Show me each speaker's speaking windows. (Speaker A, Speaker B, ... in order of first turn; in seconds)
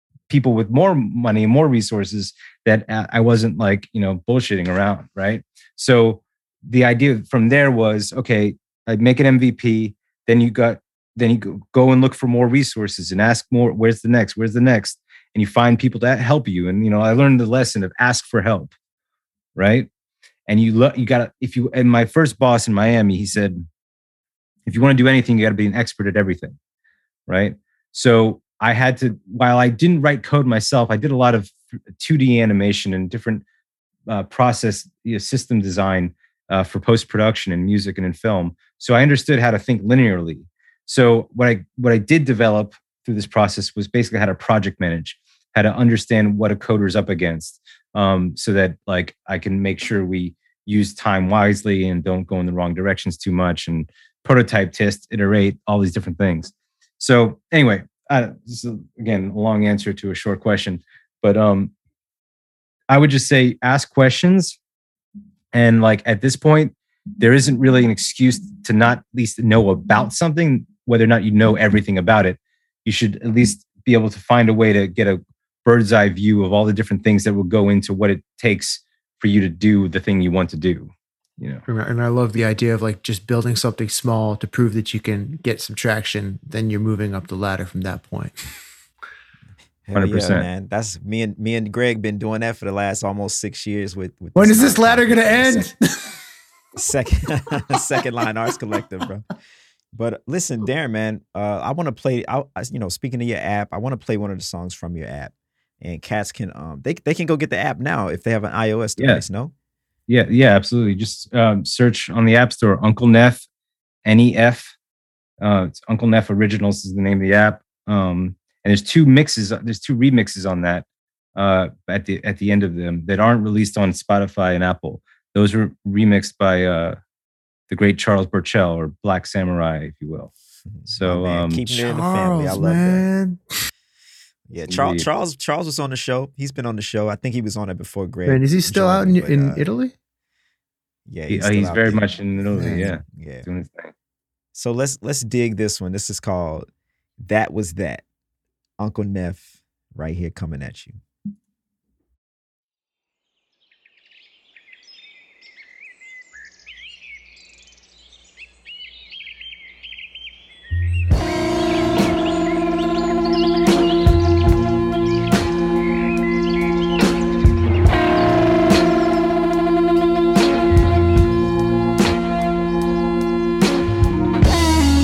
Speaker A: 0.3-18.7, 19.6-19.9, 20.5-23.6, 24.6-26.6, 27.3-33.4, 34.1-61.7, 62.9-64.6, 65.5-81.6, 89.9-90.5, 109.0-109.2, 110.1-113.4, 114.0-114.7, 115.4-120.8, 121.4-127.0, 127.7-130.3, 130.9-131.6, 134.6-135.1, 141.3-143.9
Speaker B: 81.7-88.5, 94.3-96.2, 131.7-133.4, 138.3-139.9, 142.5-142.9
Speaker C: 89.9-95.7, 96.8-99.3, 99.9-109.5, 130.7-133.1, 134.5-139.6, 141.1-142.0, 142.7-143.5, 144.6-146.7, 147.2-148.0, 148.8-151.0